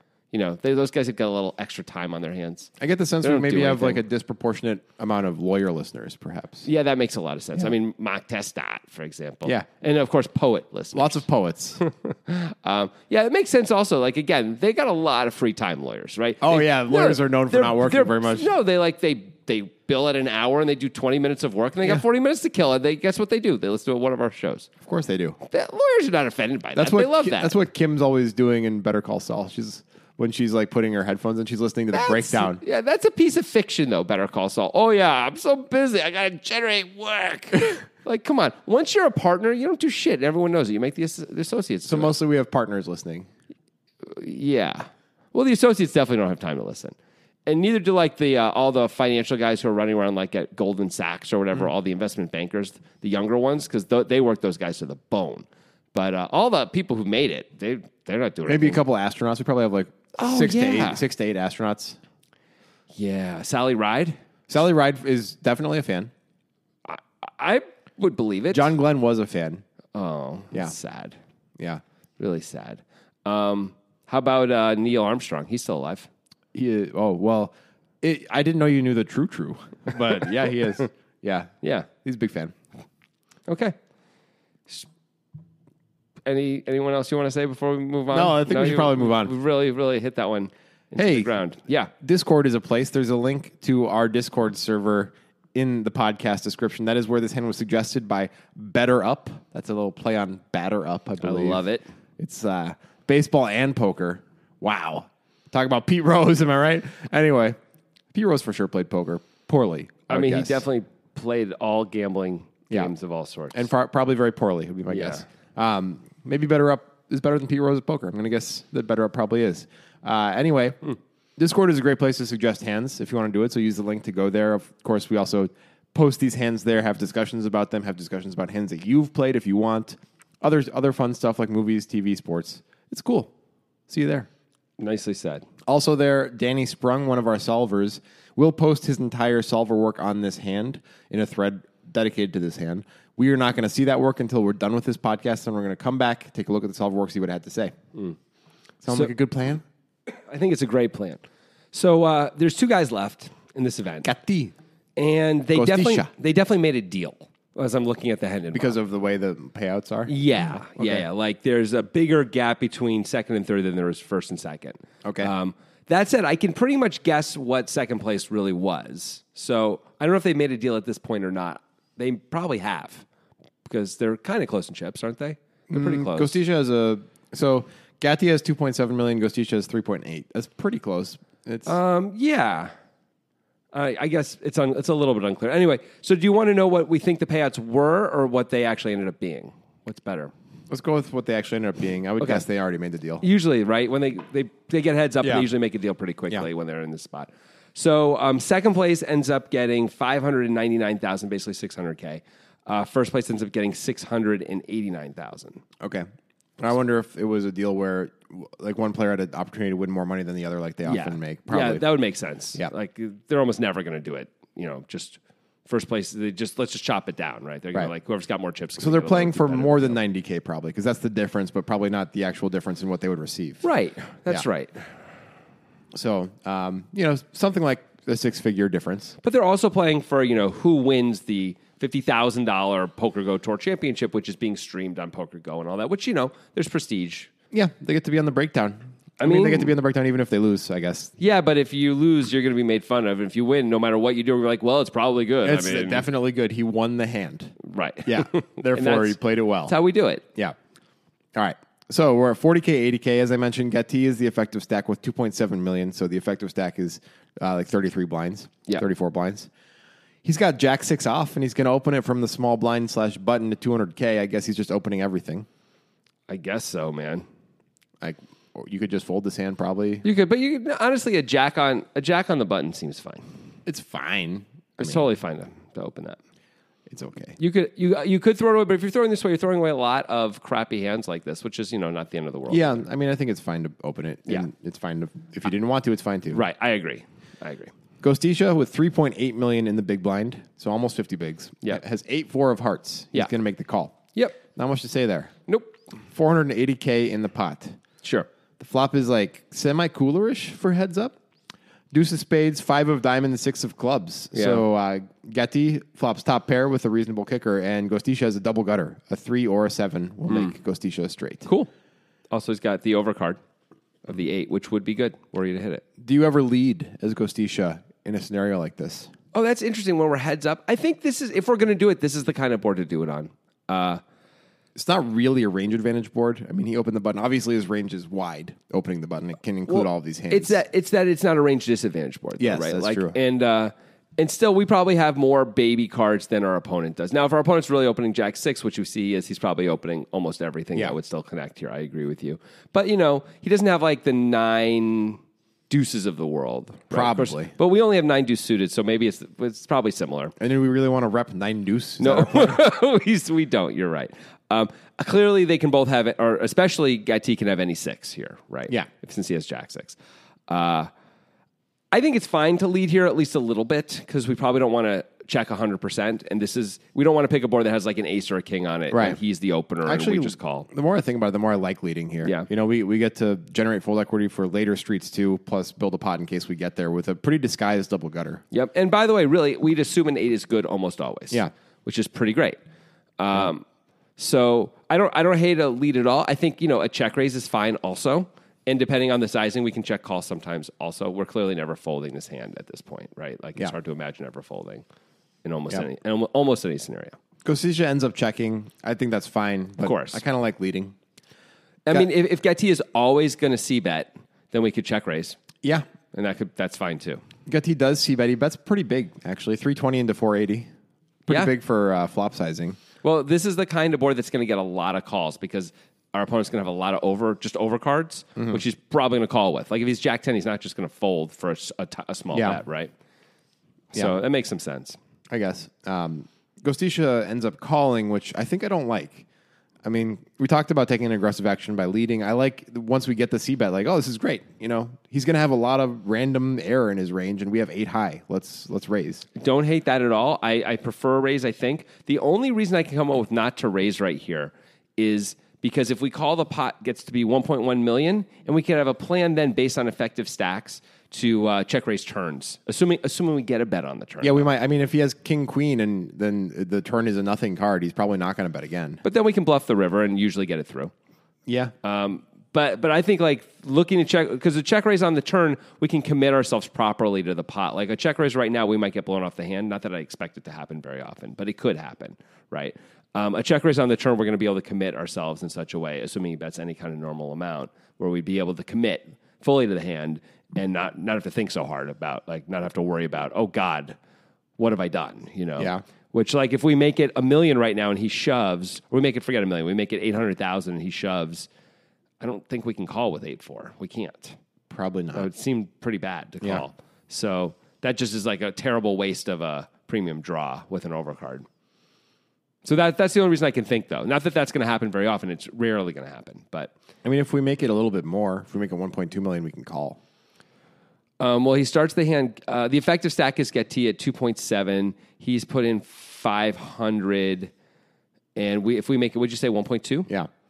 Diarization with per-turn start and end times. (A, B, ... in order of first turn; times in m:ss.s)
0:00.3-0:04.0 A
0:02.8-0:06.7 B
0:06.6-0:11.2 A
0:10.9-0:11.8 B
0:11.8-0:24.7 A
0:16.4-0:18.5 B
0:24.8-0:25.4 B
0:25.4-0:27.6 A
0:26.8-0:32.6 B
0:31.9-0:42.1 A
0:41.9-0:43.3 B
0:44.0-0:47.0 A
0:47.5-0:58.8 A
0:58.5-1:02.0 B
1:00.2-1:01.0 A
1:02.9-1:04.2 A
1:04.5-1:06.1 B
1:06.9-1:08.7 A
1:08.5-1:09.6 B
1:09.9-1:11.2 A
1:12.2-1:16.1 A
1:16.5-1:22.6 B
1:21.6-1:21.9 A
1:23.5-1:23.8 A
1:26.3-1:31.9 A
1:28.1-1:29.3 B
1:31.0-1:31.4 B
1:32.0-1:41.6 B
1:41.2-1:41.9 A
1:42.2-1:47.6 B
1:48.1-1:50.6 B
1:50.1-1:53.6 A
1:53.5-2:00.8 B
1:54.9-1:55.2 A
2:01.4-2:13.3 B
2:13.9-2:14.3 B
2:14.8-2:15.5 A
2:15.7-2:27.8 B
2:28.8-2:29.6 B
2:30.3-2:34.1 A
2:34.0-2:34.5 B
2:35.0-2:38.8 A
2:35.5-2:36.1 B
2:38.5-2:41.0 B
2:40.1-2:53.0 A
2:45.0-2:45.3 B
2:53.6-2:56.4 A
2:55.7-3:01.8 B
3:01.7-3:02.7 A
3:03.7-3:10.3 A
3:10.7-3:13.2 B
3:13.2-3:25.6 A
3:15.2-3:15.5 B
3:25.8-3:26.1 B
3:26.6-3:31.8 B
3:30.9-3:40.0 A
3:38.8-3:43.6 B
3:43.6-3:44.8 A
3:45.9-3:49.2 B
3:49.2-3:57.3 A
3:57.5-4:01.1 B
3:59.2-3:59.7 A
4:01.2-4:06.1 A
4:05.4-4:07.6 B
4:07.6-4:10.2 A
4:08.1-4:09.8 B
4:11.4-4:19.5 B
4:20.2-4:25.5 B
4:26.3-4:27.2 A
4:28.0-4:30.0 B
4:30.0-4:33.2 A
4:33.7-4:35.0 B
4:34.8-4:36.2 A
4:36.9-4:37.4 B
4:37.4-4:42.8 A
4:42.5-4:46.4 B
4:46.3-4:47.7 A
4:48.0-4:55.3 B
4:55.5-4:55.7 A
4:56.1-4:57.8 B
4:58.0-4:58.3 A
4:58.6-5:01.2 B
5:01.9-5:11.5 B
5:04.3-5:04.6 A
5:10.3-5:10.6 A
5:12.3-5:13.4 A
5:14.0-5:15.8 A
5:16.0-5:19.1 B
5:19.3-5:24.0 A
5:24.8-5:30.6 B
5:29.7-5:50.4 A
5:32.4-5:33.2 B
5:46.9-5:47.5 B
5:50.4-5:52.6 B
5:52.0-6:00.0 A
6:00.5-6:00.9 A
6:01.9-6:10.7 A
6:08.9-6:09.2 B
6:09.8-6:18.4 B
6:12.2-6:12.5 A
6:18.5-6:22.6 A
6:23.2-6:23.6 A
6:24.2-6:34.8 A
6:35.4-6:37.2 A
6:37.4-6:41.0 B
6:39.8-6:40.2 A
6:41.9-6:45.4 A
6:46.1-6:47.2 A
6:47.5-6:50.7 B
6:51.3-6:52.8 B
6:53.0-7:02.9 A
6:58.4-6:58.6 B
7:02.3-7:02.6 B
7:03.9-7:05.0 A
7:05.3-7:09.2 B
7:09.8-7:19.3 B
7:19.4-7:34.5 A
7:34.2-7:39.0 B
7:39.0-7:40.9 A
7:41.5-7:41.7 B
7:41.8-8:04.0 A
8:04.6-8:11.5 A
8:12.2-8:14.4 A
8:14.7-8:15.3 B
8:15.1-8:21.4 A
8:22.6-8:26.7 A
8:27.0-8:30.0 B
8:31.2-8:37.5 A
8:38.4-8:40.1 A